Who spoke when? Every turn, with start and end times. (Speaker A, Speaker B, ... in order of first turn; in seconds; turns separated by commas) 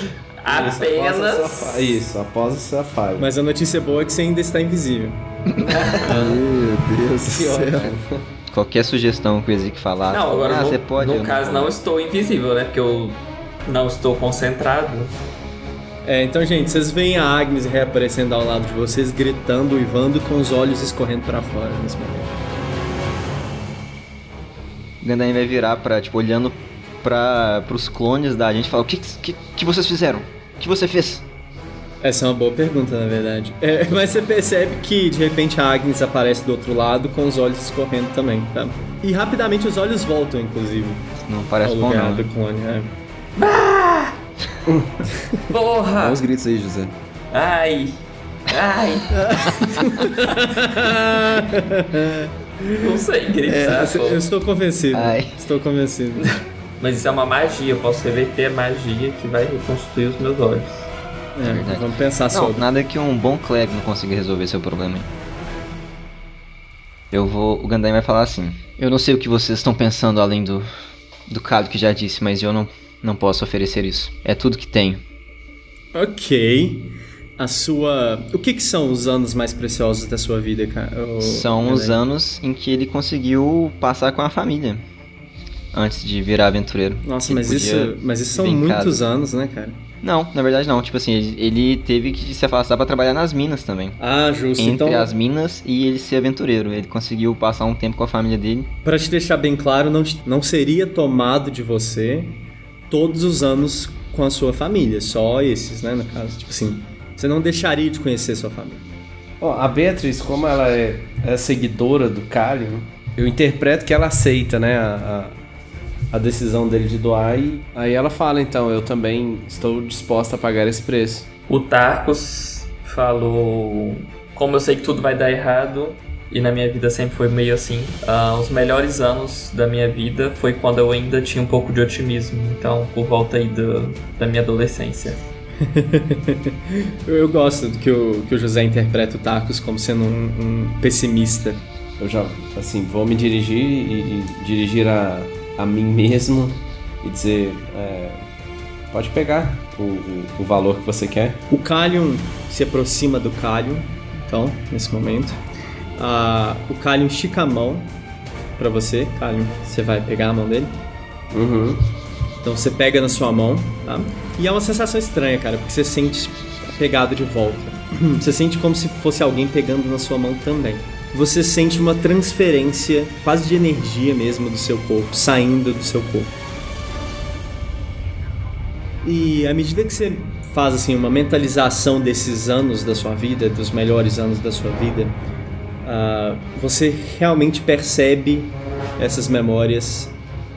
Speaker A: 0.4-2.0, Speaker B: 0.5-3.3, Speaker C: 3.2-5.2, Speaker D: 5.6-6.4, Speaker B: 5.8-6.1, Speaker E: 6.0-7.9, Speaker B: 7.2-8.2, Speaker D: 8.5-11.7, Speaker A: 10.1-15.1, Speaker C: 16.0-22.3, Speaker D: 25.0-31.2, Speaker C: 32.0-41.1, Speaker D: 41.2-42.2, Speaker C: 41.6-42.9, Speaker A: 43.4-44.2, Speaker B: 44.7-45.1, Speaker A: 45.5-46.2, Speaker E: 46.0-46.9, Speaker A: 47.3-49.9, Speaker C: 49.7-56.4, Speaker A: 52.8-54.2, Speaker D: 54.9-55.3, Speaker A: 56.2-60.9, Speaker C: 61.3-62.6, Speaker D: 61.4-65.1, Speaker D: 67.1-70.7, Speaker D: 71.3-75.0, Speaker C: 75.9-82.0, Speaker D: 81.2-84.8, Speaker D: 85.7-89.0, Speaker C: 87.0-89.8, Speaker D: 90.0-94.0, Speaker C: 94.0-95.1, Speaker D: 94.6-98.7, Speaker C: 98.8-108.8, Speaker B: 109.4-115.3, Speaker B: 116.1-121.3, Speaker A: 121.5-135.2, Speaker C: 135.6-141.6, Speaker B: 142.0-148.2, Speaker B: 148.9-151.4, Speaker C: 151.5-155.4, Speaker C: 155.9-157.9, Speaker C: 158.6-160.8, Speaker B: 161.3-161.9, Speaker C: 162.4-176.3, Speaker C: 179.0-185.1, Speaker C: 185.8-190.1